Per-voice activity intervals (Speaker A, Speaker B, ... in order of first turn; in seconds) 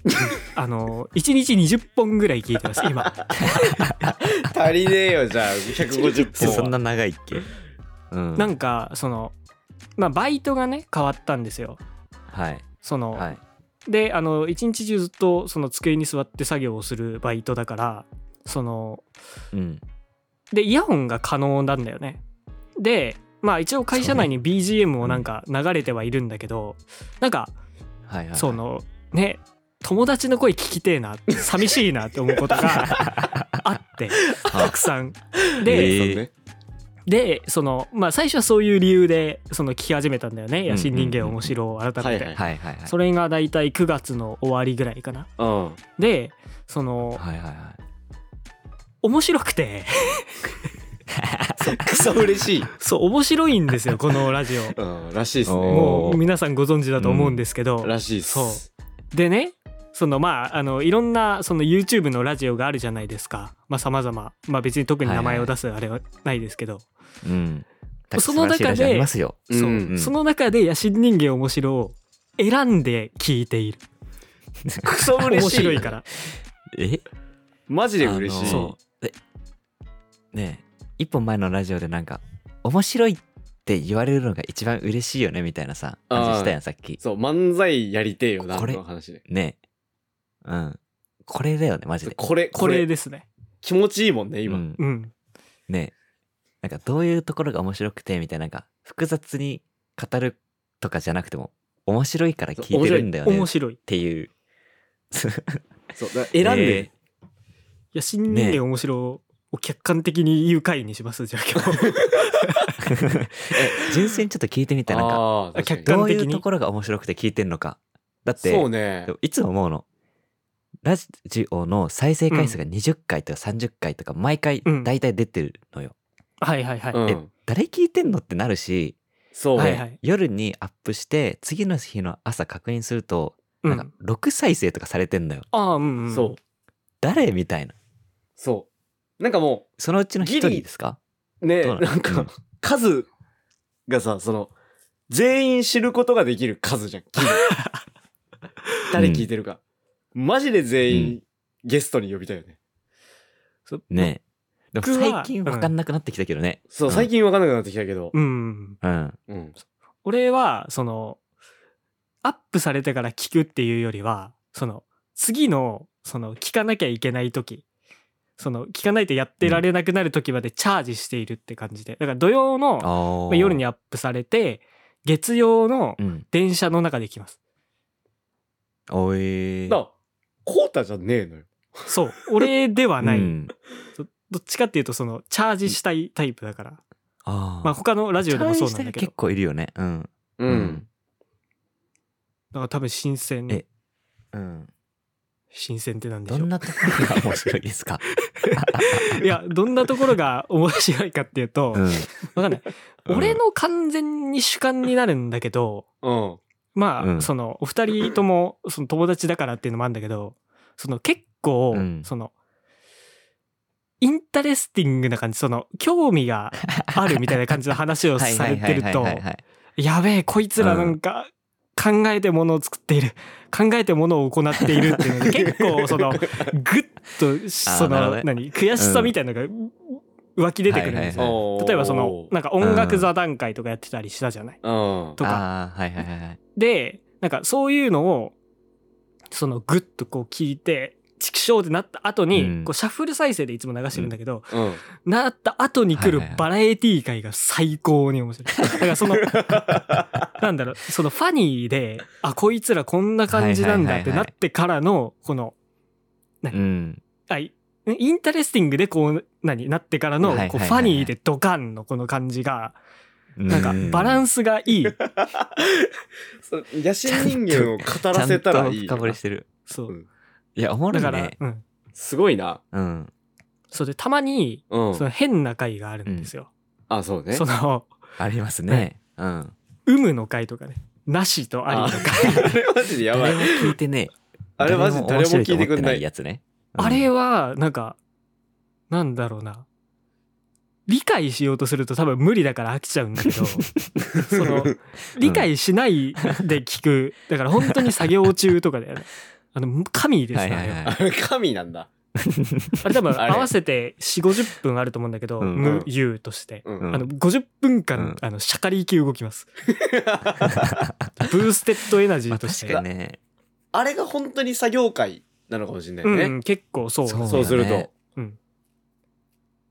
Speaker A: 0.5-3.2, 6.3-6.7, 8.3-9.3, 10.0-11.8, 12.8-13.3, 13.9-19.0, 20.5-22.2, 22.8-27.5, 28.3-36.0, 37.1-45.3, 46.0-47.2, 49.0-50.4, 52.8-54.8, 55.7-66.8, 68.2-73.8, 75.2-76.0, 78.5-78.8, 92.5-93.2, 94.8-95.1, 103.2-103.8, 107.9-112.8, 115.5-116.4, 122.3-122.5, 124.6-124.9, 126.4-127.0, 129.6-130.0, 133.6-133.9, 135.5-136.4, 147.4-147.8, 153.7-154.1, 154.8-155.7, 158.1-158.8, 160.0-161.2, 162.2-167.6, 168.4-177.3, 181.9-183.3, 183.9-186.8, 187.6-189.1, 192.5-193.6, 195.5-197.1, 198.2-205.8, 206.7-212.3, 214.0-219.2, 219.8-234.6, 235.2-235.4, 236.6-238.3, 239.3-249.6, 250.4-255.5, 257.3-262.8, 263.5-265.0, 270.9-271.6, 273.7-276.5, 277.3-277.9, 279.9-282.5, 286.8-288.0, 288.9-289.6, 290.9-300.8, 302.8-309.5, 311.2-312.8, 316.0-317.6
Speaker B: 3.4-4.2, 6.4-7.5, 8.1-8.5, 12.3-13.4, 19.5-19.8, 23.9-24.3, 28.1-28.6, 32.6-33.6, 34.5-34.8, 35.6-36.2, 40.7-41.5, 42.3-42.9, 47.1-47.8, 51.1-52.0, 55.4-56.2, 57.0-57.4, 65.0-65.5, 67.2-70.1, 74.6-77.0, 78.0-79.1, 80.3-87.0, 88.4-89.6, 90.4-92.2, 94.5-94.8, 95.7-95.9, 96.6-104.3, 105.1-105.6, 106.4-106.9, 108.3-108.6, 112.8-115.2, 115.8-119.8, 120.8-125.9, 127.1-129.0, 129.6-135.5, 137.0-137.8, 139.8-141.0, 141.6-142.3, 148.9-149.3, 150.9-151.2, 153.9-154.2, 154.7-157.1, 158.8-159.2, 172.8-173.6, 176.0-176.2, 178.9-179.8, 183.0-183.5, 187.2-190.8, 194.3-194.7, 196.3-198.0, 198.5-199.2, 201.7-202.1, 203.1-203.4, 207.0-207.3, 211.7-212.1, 216.7-217.3, 218.2-219.4, 220.6-221.0, 227.7-229.1, 230.7-231.3, 232.6-233.1, 235.2-236.4, 242.3-242.7, 245.9-246.4, 253.3-254.3, 256.5-257.0, 260.2-261.1, 263.4-264.2, 267.1-269.5, 270.6-271.4, 272.7-273.1, 276.1-276.3, 278.2-279.5, 282.1-282.6, 283.1-287.1, 293.4-293.9, 295.2-295.5, 300.3-301.0, 302.2-302.9, 305.4-305.7, 306.8-307.1, 310.4-310.9, 312.3-313.2, 317.1-317.9
Speaker C: 4.2-6.7, 35.6-36.3, 42.0-42.4, 45.4-45.8, 51.6-52.7, 54.8-56.1, 57.8-58.7, 69.5-69.9, 74.8-75.9, 77.7-78.7, 86.1-89.2, 92.0-92.8, 93.6-94.6, 102.6-103.1, 105.9-106.9, 114.9-115.9, 118.4-119.1, 126.9-127.3, 129.3-129.8, 136.1-136.4, 138.4-138.7, 139.2-140.6, 141.4-143.1, 143.9-144.5, 145.1-147.4, 148.9-149.6, 150.1-152.6, 156.7-158.1, 159.3-159.5, 180.4-182.5, 190.4-190.8, 206.0-206.4, 225.5-226.5, 231.2-232.3, 234.6-235.2, 244.5-244.8, 249.5-249.8, 264.8-265.9, 266.4-269.2, 271.9-272.6, 274.7-275.1, 276.9-277.4, 281.7-283.8, 284.6-286.0, 294.2-294.7, 300.8-301.9, 303.1-303.5, 305.6-305.9, 306.6-306.9, 309.7-310.6, 313.7-316.3, 317.3-317.9